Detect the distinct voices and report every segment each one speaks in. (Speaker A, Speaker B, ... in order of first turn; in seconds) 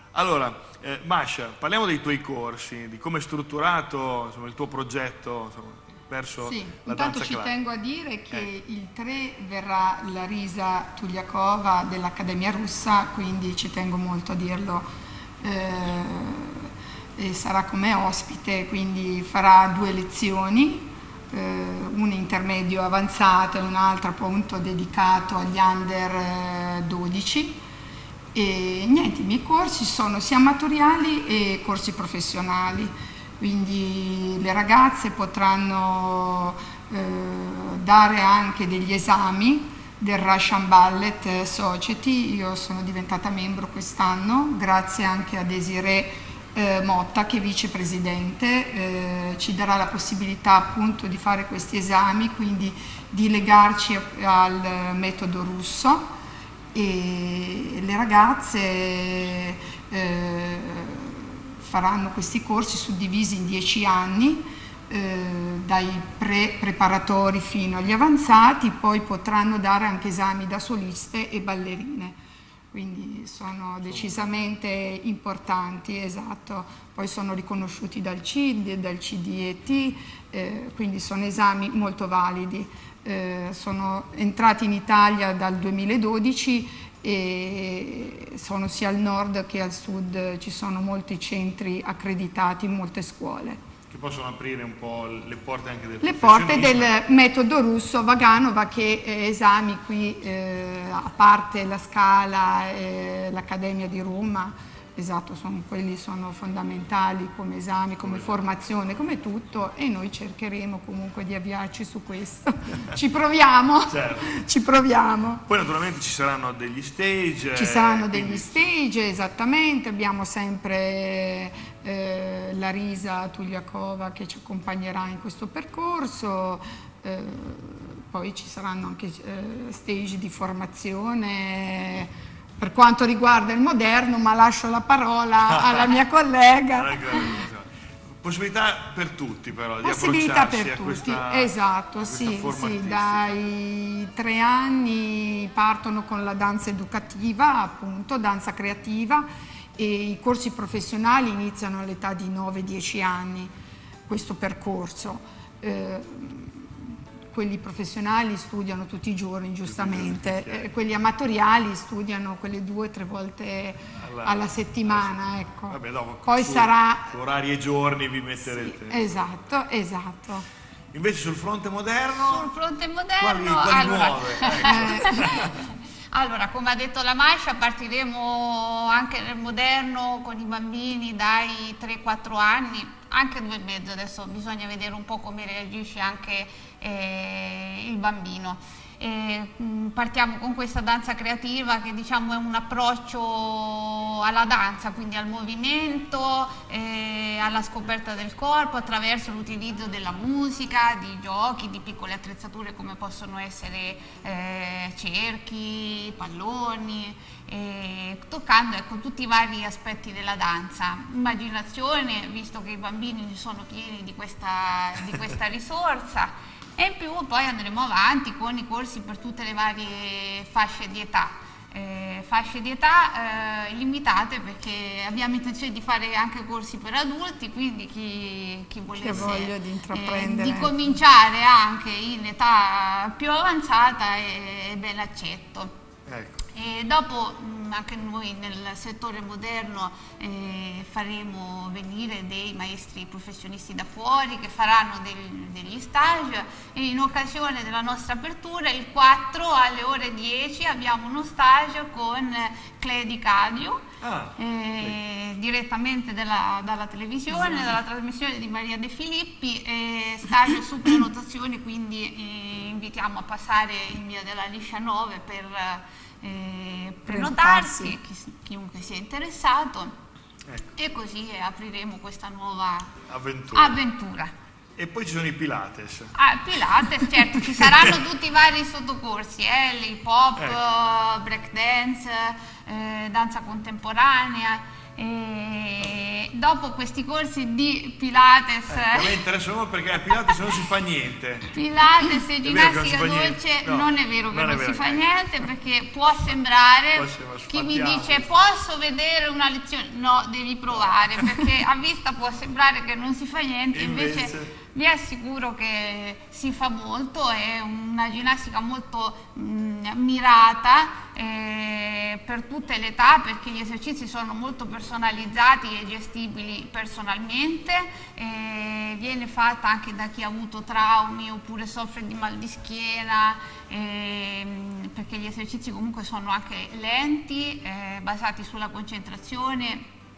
Speaker A: 0.1-7.5, 73.9-74.3, 93.9-96.9, 108.0-108.4, 113.9-114.4, 115.5-118.7, 135.4-135.9, 136.7-137.7, 138.2-143.4, 159.6-160.7, 164.0-169.1, 170.9-172.5, 173.2-175.6, 236.1-236.4, 254.0-254.9, 270.4-270.7, 273.1-273.8, 274.8-276.1, 276.8-277.9, 288.7-291.5, 292.4-295.1, 296.9-298.3, 301.1-301.4, 303.7-304.5
Speaker B: 6.4-14.9, 15.4-27.6, 28.3-56.0, 56.7-72.2, 72.7-93.6, 96.0-115.4, 117.5-137.4, 139.8-153.5, 154.1-167.1, 168.5-170.4, 174.6-175.4, 228.9-230.9, 257.3-257.7, 267.1-267.9
Speaker C: 172.1-235.7, 236.5-253.8, 254.4-269.9, 270.7-273.0, 273.5-274.3, 276.1-289.1, 291.5-329.9